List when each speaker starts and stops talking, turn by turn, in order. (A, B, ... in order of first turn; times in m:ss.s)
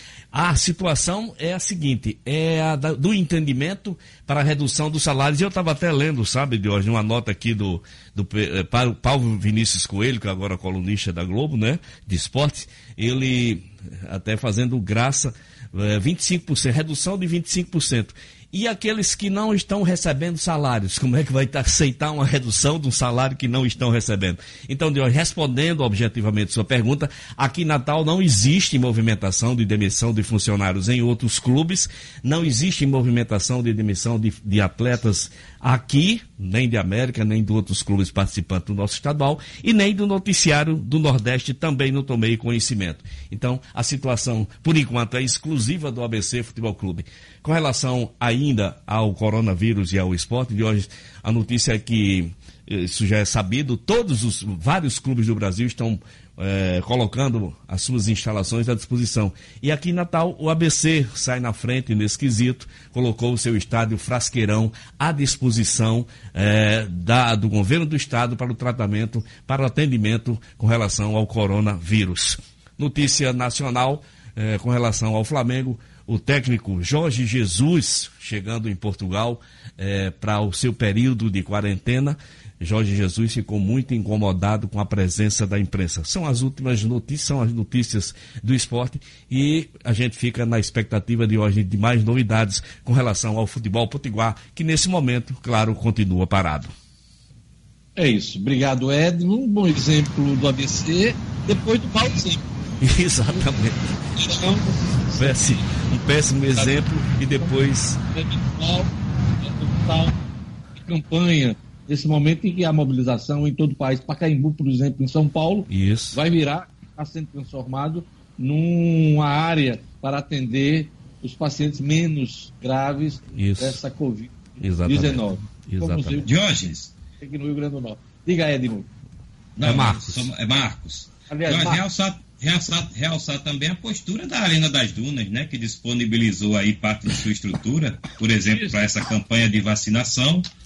0:00.3-1:36.7 A
1:38.0-1:42.4 B
1:42.8-1:43.9 A
1:44.2-1:45.6 B
1:45.2-1:48.0 A
1:46.5-1:47.6 B
1:48.1-1:50.1 B
1:50.8-2:06.3 B
1:55.7-1:56.2 A
2:03.3-2:03.8 A
2:04.6-2:06.2 A
2:06.2-2:06.9 C
2:07.2-2:08.9 B
2:09.6-2:20.5 C
2:09.6-2:10.3 A
2:11.3-2:11.8 B